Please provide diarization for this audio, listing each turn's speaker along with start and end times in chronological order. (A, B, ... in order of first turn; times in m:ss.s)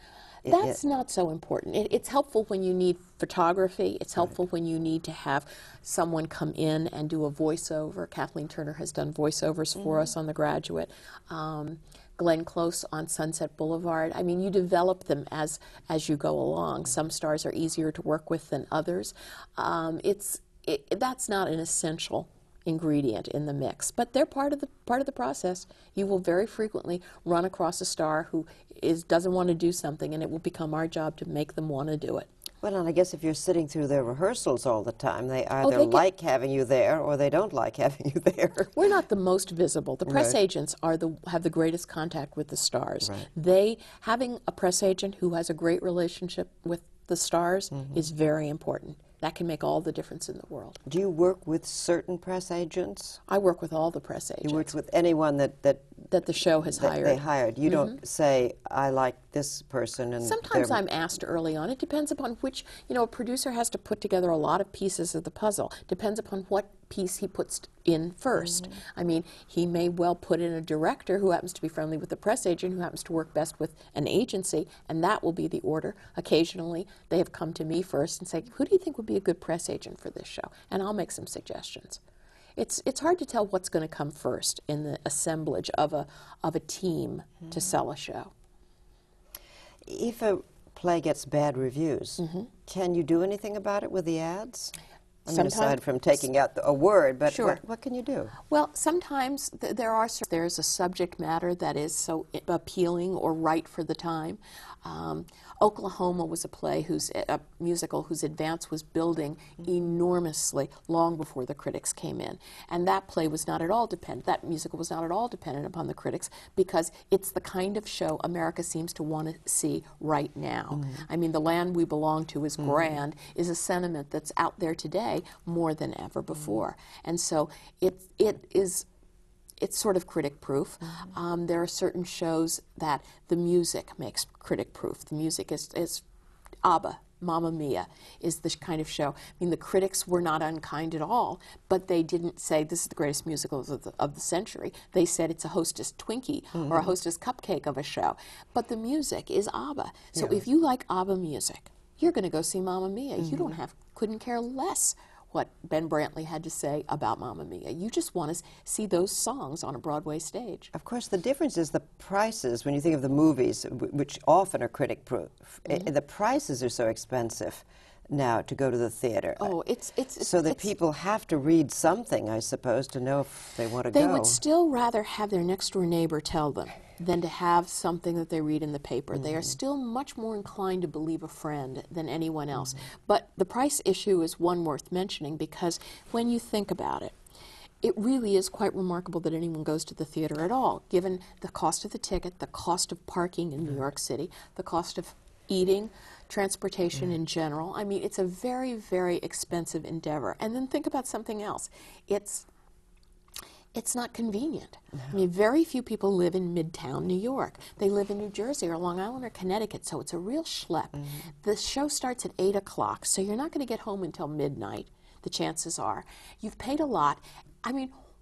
0:00.4-0:00.8 A
0:00.4-0:32.3 B
0:32.6-0:38.7 A
0:35.6-0:36.0 B
0:38.7-0:50.8 B
0:40.0-0:40.4 A
0:43.0-0:43.3 A
0:50.8-0:53.2 A
0:53.3-0:54.7 B
0:54.4-0:56.0 A
0:56.1-0:58.0 B
0:56.8-1:00.8 A
1:00.2-1:22.0 B
1:22.6-1:28.3 B
1:29.8-1:38.3 A
1:32.2-1:32.5 B
1:35.3-1:35.8 B
1:37.2-1:37.6 B
1:38.5-2:08.9 B
2:09.6-2:16.0 B
2:16.6-2:40.7 B
2:26.5-2:26.9 A
2:30.1-2:30.4 A
2:33.2-2:33.5 A
2:40.7-2:49.5 A
2:49.4-2:50.7 B
2:50.2-2:54.4 A
2:53.9-3:07.2 B
2:59.1-2:59.5 A
3:07.8-3:22.5 B
3:23.7-3:37.9 B